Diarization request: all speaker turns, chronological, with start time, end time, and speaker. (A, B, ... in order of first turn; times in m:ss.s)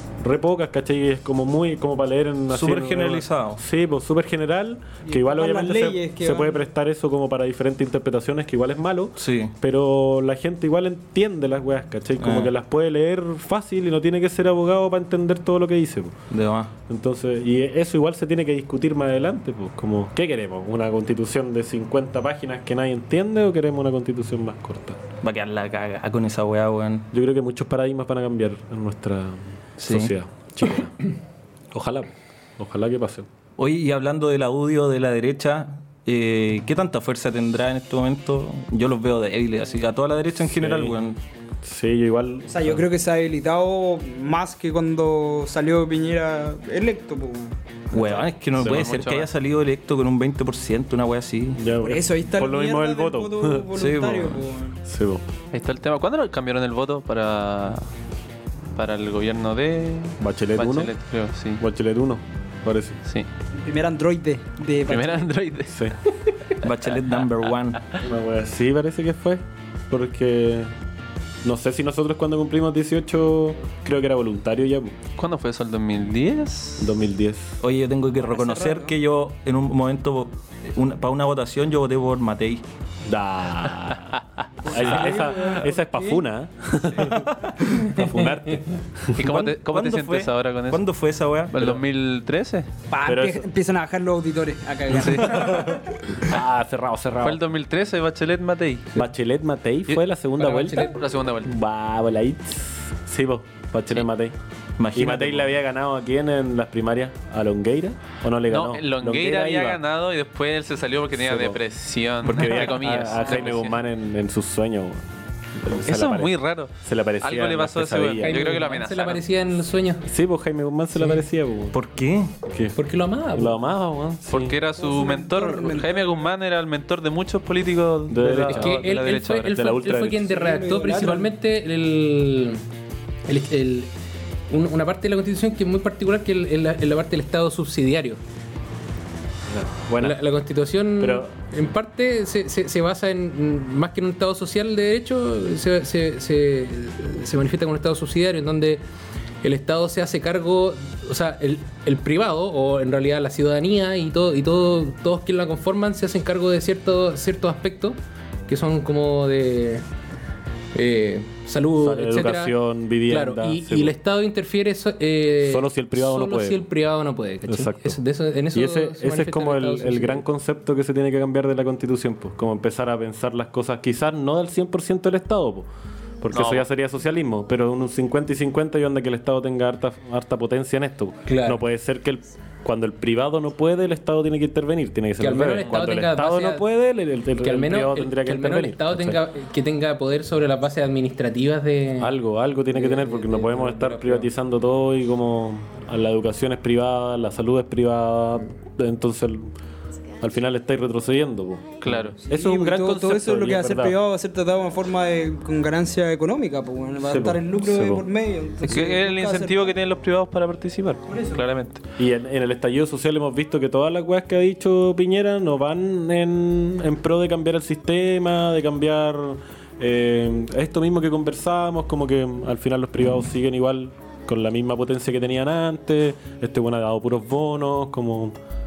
0:00.2-0:16.2 A
0:02.5-0:03.6 B
0:05.1-0:06.6 C
0:09.2-0:09.5 B
0:12.2-0:12.5 B
0:16.3-0:16.7 B
0:16.9-0:25.0 A
0:25.2-0:27.1 B
0:27.1-0:31.0 A
0:29.8-0:30.1 B
0:31.7-0:33.3 A
0:33.6-0:41.2 B
0:40.5-0:41.0 A
0:41.6-0:42.8 A
0:42.5-0:47.6 C
0:47.9-0:51.6 B
0:47.9-0:48.9 A
0:48.6-0:49.3 D
0:51.6-0:53.7 A
0:51.8-0:54.8 C
0:53.8-0:54.2 B
0:54.8-0:55.2 A
0:55.5-0:57.9 D
0:58.8-1:01.6 D
1:00.2-1:00.9 A
1:01.6-1:03.0 A
1:03.5-1:05.3 C
1:04.9-1:06.6 D
1:05.7-1:06.0 A
1:06.6-1:07.8 B
1:08.0-1:10.7 A
1:11.4-1:15.0 A
1:15.2-1:16.9 D
1:16.8-1:17.6 A
1:17.6-1:22.6 B
1:18.3-1:19.0 C
1:23.1-1:29.2 A
1:24.6-1:26.2 C
1:27.0-1:27.7 B
1:29.2-1:30.9 D
1:29.2-1:31.8 B
1:31.5-1:32.7 D
1:32.9-1:35.8 C
1:33.0-1:33.5 A
1:34.9-1:35.6 D
1:35.3-1:37.4 A
1:37.2-1:39.0 D
1:38.9-1:44.4 A
1:40.4-1:41.0 E
1:40.6-1:41.5 D
1:44.8-1:45.5 B
1:44.9-1:49.8 A
1:48.5-1:53.8 D
1:51.2-1:51.6 A
1:52.2-1:55.0 A
1:55.6-1:58.4 A
1:55.9-1:59.2 D
1:58.2-2:00.1 E
2:00.0-2:01.8 A
2:01.7-2:02.3 B
2:02.4-2:02.8 A
2:02.8-2:03.6 E
2:03.3-2:04.6 A
2:04.3-2:09.6 D
2:04.8-2:06.2 C
2:08.1-2:10.4 A
2:08.5-2:12.6 E
2:10.2-2:11.3 C
2:13.3-2:13.9 E
2:14.5-2:18.2 E
2:19.5-2:20.2 A
2:20.0-2:28.8 E
2:21.0-2:21.4 A
2:29.4-2:39.9 E
2:40.7-2:42.6 E
2:41.8-2:44.0 A
2:43.1-2:50.2 E
2:45.4-2:46.6 A
2:47.5-2:48.0 A
2:48.5-2:55.7 A
2:56.2-3:09.2 A
2:56.3-2:56.7 D
3:01.3-3:01.6 E
3:05.2-3:06.7 E
3:07.4-3:12.2 E
3:12.0-3:19.5 A
3:12.7-3:14.3 E
3:20.2-3:24.0 A
3:21.8-3:22.2 D
3:22.2-3:29.8 C
3:27.0-3:28.1 A
3:28.6-3:31.8 D
3:31.1-3:31.4 C
3:32.0-3:48.4 A